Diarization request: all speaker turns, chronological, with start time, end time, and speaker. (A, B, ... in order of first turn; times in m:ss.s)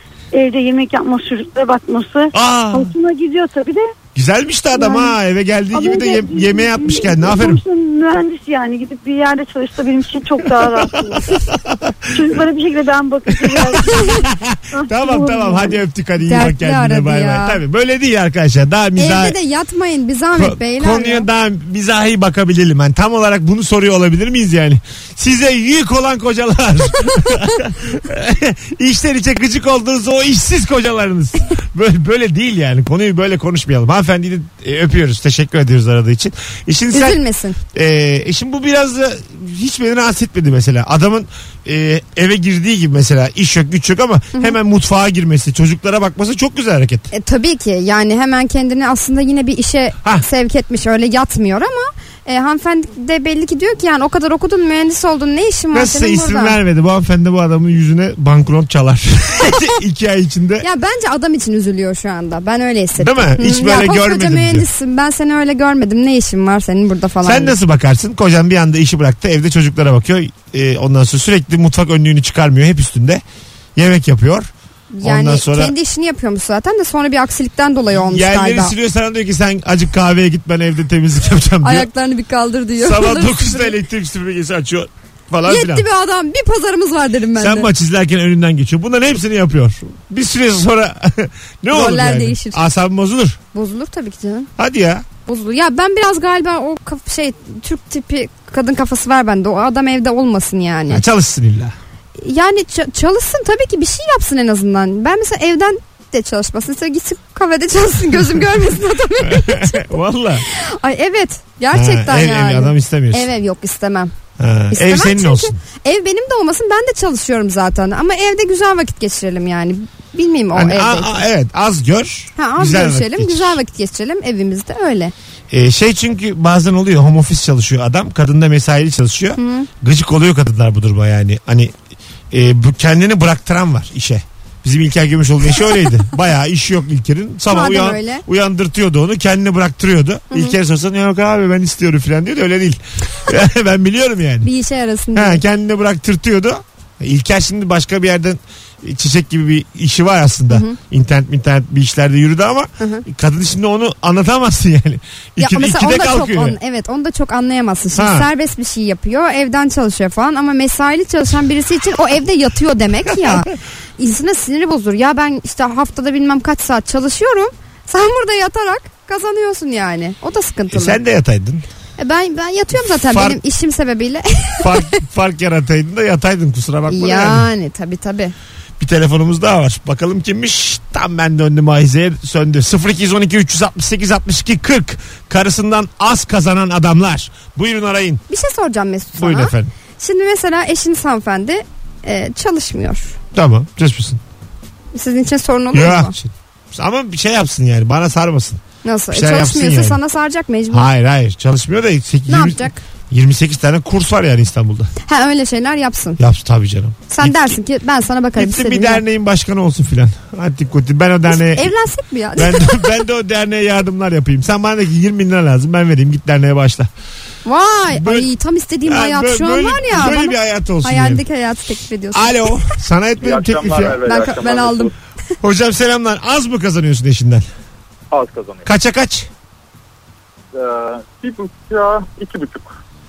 0:00.3-0:03.9 A
0:02.3-0:02.9 B
0:04.2-0:07.6 B
0:04.8-0:05.2 A
0:05.7-0:11.4 A
0:11.7-0:11.9 B
0:12.1-0:15.8 A
0:13.4-0:19.4 B
0:16.2-0:17.6 C
0:19.0-0:21.3 C
0:20.4-0:37.2 B
0:36.9-0:37.6 C
0:37.7-0:47.1 B
0:47.1-0:56.6 C
0:55.7-1:00.7 B
1:00.6-1:07.6 C
1:03.0-1:04.7 B
1:07.2-1:13.2 B
1:13.8-1:14.5 B
1:14.9-1:18.7 C
1:15.0-1:15.7 B
1:17.9-1:21.9 B
1:21.6-1:23.8 C
1:22.8-1:25.9 B
1:25.4-1:27.7 C
1:27.4-1:33.4 B
1:31.7-1:32.6 C
1:33.5-1:34.5 C
1:34.6-1:35.0 B
1:35.3-1:41.0 C
1:40.9-1:41.8 B
1:42.2-1:50.0 C
1:49.2-1:50.4 B
1:50.5-1:54.1 C
1:51.7-1:53.3 B
1:54.4-1:55.6 B
1:54.7-2:01.2 C
2:00.5-2:03.6 B
2:02.4-2:05.1 C
2:05.5-2:11.7 B
2:09.4-2:09.7 C
2:12.3-2:24.5 B
2:17.5-2:18.2 C
2:24.4-2:25.4 C
2:25.2-2:36.6 B
2:30.5-2:30.8 C
2:32.8-2:33.0 C
2:35.4-2:51.0 C
2:38.0-2:38.3 B
2:50.7-2:51.7 B
2:52.0-2:54.8 C
2:53.1-2:53.4 B
2:54.6-2:57.5 B
2:56.9-2:58.3 C
2:58.8-3:08.2 B
3:08.3-3:13.2 C
3:09.2-3:09.7 B
3:13.3-3:14.2 B
3:14.9-3:16.2 C
3:15.7-3:20.0 B
3:18.8-3:20.9 C
3:20.7-3:24.9 B
3:22.3-3:22.8 C
3:25.0-3:26.2 C
3:26.2-3:27.6 B
3:27.1-3:29.0 C
3:28.4-3:31.7 B
3:31.3-3:32.9 C
3:32.4-3:36.9 B
3:37.4-3:42.5 C
3:38.0-3:38.3 B
3:38.8-3:41.2 B
3:42.1-3:44.0 B
3:43.2-3:44.9 D
3:44.0-3:44.9 C
3:45.4-3:47.5 B
3:48.1-3:48.7 D
3:48.6-3:49.3 B
3:50.5-3:52.8 D